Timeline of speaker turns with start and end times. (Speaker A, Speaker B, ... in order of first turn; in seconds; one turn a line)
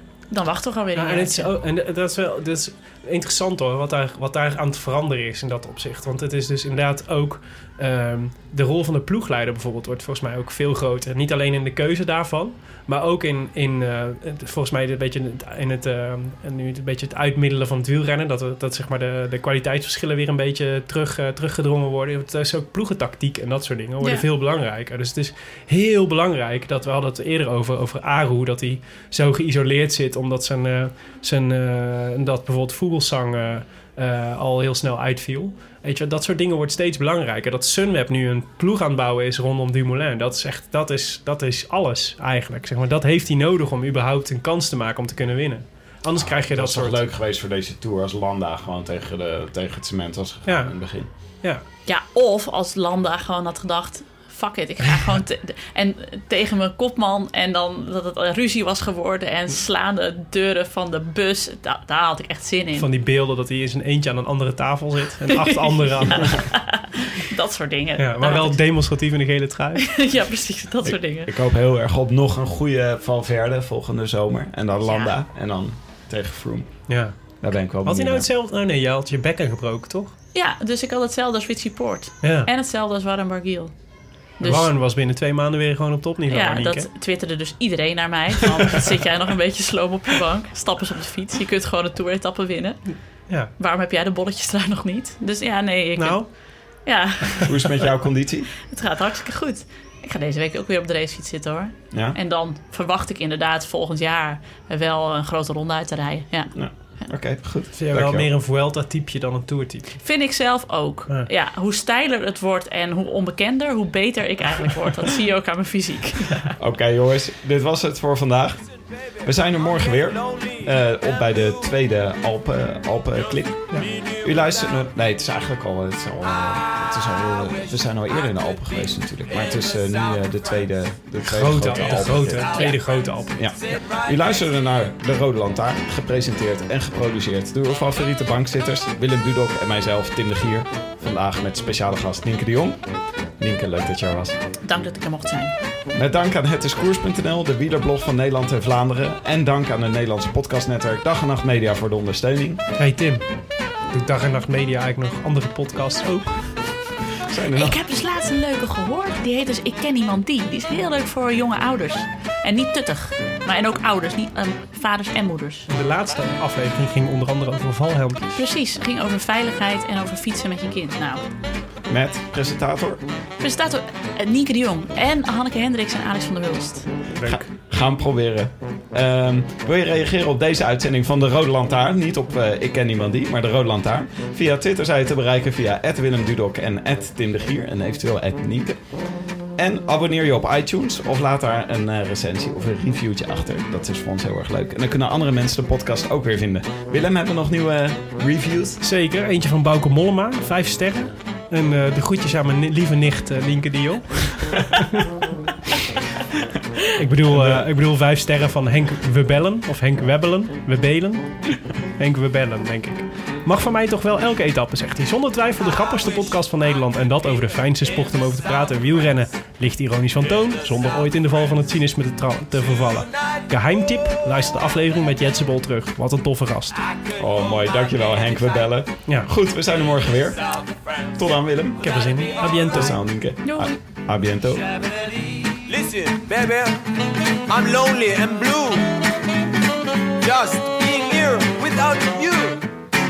Speaker A: 0.3-1.5
Speaker B: 1.0-47.0
Speaker C: 46.1-51.1
Speaker B: 50.5-51.6
Speaker A: 51.9-62.9
Speaker B: 62.8-66.3
Speaker A: 65.3-68.7
Speaker B: 68.0-69.9
Speaker A: 69.8-71.3
Speaker C: 70.8-78.3
Speaker A: 74.8-75.2
Speaker B: 76.9-77.2
Speaker B: 77.8-80.1
Speaker A: 80.3-83.7
Speaker B: 82.2-82.5
Speaker A: 84.4-84.7
Speaker B: 84.4-86.9
Speaker A: 86.3-97.9
Speaker B: 96.0-96.3
Speaker C: 97.4-98.5
Speaker A: 98.6-106.6
Speaker C: 101.9-102.2
Speaker C: 106.5-108.3
Speaker B: 107.8-110.0
Speaker A: 110.0-116.5
Speaker C: 116.6-132.5
Speaker B: 131.2-133.4
Speaker A: 132.5-132.9
Speaker C: 133.3-142.9
Speaker C: 143.4-144.4
Speaker A: 144.6-145.5
Speaker C: 145.9-152.6
Speaker B: 152.8-153.2
Speaker B: 153.9-156.3
Speaker C: 157.2-157.8
Speaker A: 157.5-165.7
Speaker B: 165.7-168.4
Speaker A: 168.4-171.2
Speaker C: 171.9-173.0
Speaker A: 173.4-176.9
Speaker B: 177.1-177.5
Speaker C: 177.2-188.8
Speaker C: 189.6-198.8
Speaker B: 198.8-205.1
Speaker B: 206.9-226.8
Speaker C: 207.3-207.7
Speaker C: 227.2-230.4
Speaker D: 230.7-231.0
Speaker C: 231.2-231.8
Speaker B: 231.8-232.9
Speaker C: 232.7-234.6
Speaker A: 233.4-233.8
Speaker D: 235.5-236.8
Speaker D: 237.5-239.0
Speaker D: 240.2-242.7